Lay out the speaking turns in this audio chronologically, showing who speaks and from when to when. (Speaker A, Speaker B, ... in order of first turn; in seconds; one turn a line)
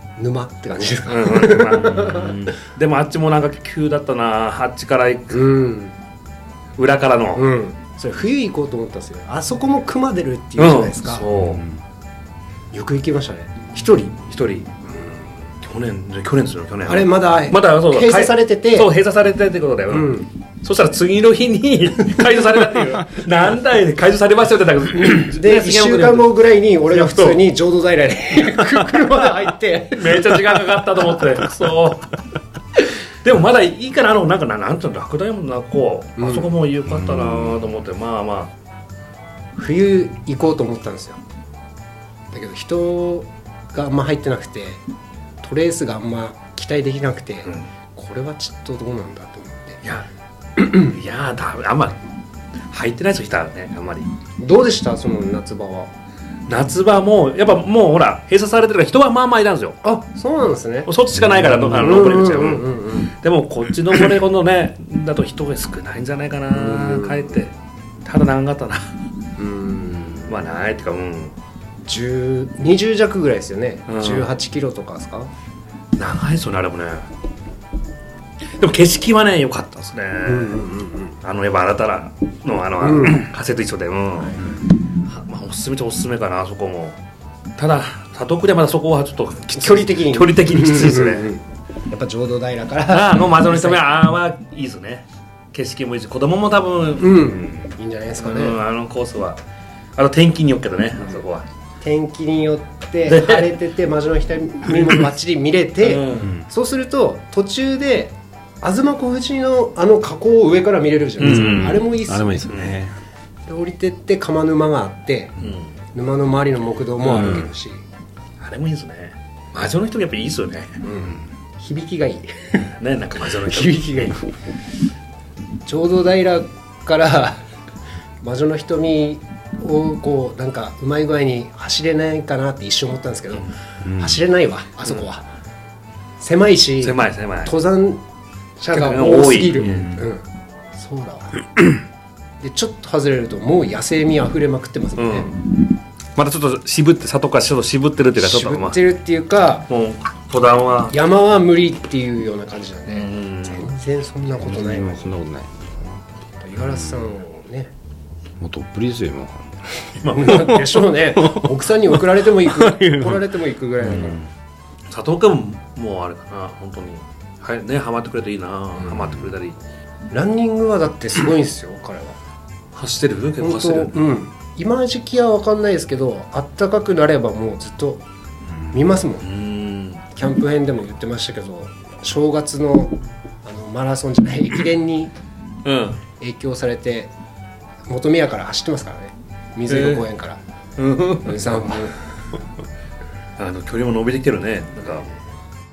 Speaker A: 0.2-2.5
Speaker B: 1.1-5.5
Speaker A: 5.3-5.9
Speaker B: 6.8-7.4
Speaker A: 7.3-11.3
Speaker B: 10.6-11.6
Speaker C: 11.3-11.8
Speaker A: 12.7-14.2
Speaker B: 14.3-14.7
Speaker A: 14.9-15.2
Speaker B: 15.6-26.4
Speaker A: 16.8-18.9
Speaker A: 19.9-20.3
Speaker A: 25.0-30.6
Speaker B: 26.9-27.4
Speaker B: 29.9-32.1
Speaker B: 32.8-38.5
Speaker A: 36.2-36.5
Speaker C: 37.0-37.5
Speaker A: 39.5-41.2
Speaker A: 42.3-44.8
Speaker A: 45.4-49.8
Speaker A: 50.6-50.9
Speaker B: 50.6-52.0
Speaker B: 52.7-54.1
Speaker A: 54.4-55.9
Speaker B: 56.5-59.8
Speaker A: 59.8-60.9
Speaker B: 60.9-68.8
Speaker C: 61.2-61.7
Speaker A: 61.7-63.1
Speaker A: 66.5-67.4
Speaker A: 69.4-70.2
Speaker B: 70.2-71.3
Speaker A: 71.8-75.3
Speaker B: 73.8-74.3
Speaker B: 76.0-77.1
Speaker B: 78.6-80.6
Speaker A: 80.2-81.2
Speaker B: 81.2-87.0
Speaker A: 82.8-83.3
Speaker A: 84.2-84.4
Speaker B: 87.6-91.3
Speaker A: 89.5-93.9
Speaker B: 92.9-99.4
Speaker A: 97.0-98.6
Speaker B: 100.0-101.5
Speaker A: 101.8-112.5
Speaker B: 103.0-103.6
Speaker B: 104.7-105.1
Speaker B: 105.8-106.3
Speaker B: 111.2-111.8
Speaker C: 111.2-113.0
Speaker B: 112.5-112.7
Speaker A: 113.5-115.3
Speaker B: 115.4-115.7
Speaker A: 115.9-117.8
Speaker B: 117.0-117.5
Speaker B: 118.4-120.8
Speaker A: 120.8-122.7
Speaker B: 122.8-124.2
Speaker A: 123.4-124.3
Speaker A: 125.6-127.4
Speaker A: 128.2-135.2
Speaker C: 133.8-134.2
Speaker A: 136.2-138.0
Speaker B: 136.8-137.6
Speaker B: 138.6-140.0
Speaker A: 138.6-141.7
Speaker C: 139.6-139.9
Speaker A: 142.4-145.4
Speaker B: 144.9-145.5
Speaker B: 146.2-148.8
Speaker A: 148.2-149.7
Speaker B: 149.7-150.9
Speaker A: 150.9-155.2
Speaker B: 152.9-153.7
Speaker C: 154.3-156.0
Speaker A: 156.4-157.7
Speaker C: 156.6-157.1
Speaker C: 158.4-163.2
Speaker B: 160.0-160.8
Speaker A: 160.1-164.2
Speaker C: 163.8-164.3
Speaker B: 163.8-164.2
Speaker B: 164.9-169.6
Speaker A: 168.7-169.3
Speaker A: 170.1-172.2
Speaker B: 172.7-173.9
Speaker A: 173.4-178.0
Speaker A: 178.7-179.3
Speaker B: 179.2-180.0
Speaker A: 180.1-185.1
Speaker B: 185.6-186.0
Speaker A: 186.2-187.1
Speaker A: 187.9-190.4
Speaker B: 189.7-190.0
Speaker B: 190.8-191.8
Speaker A: 191.2-192.0
Speaker B: 193.4-195.1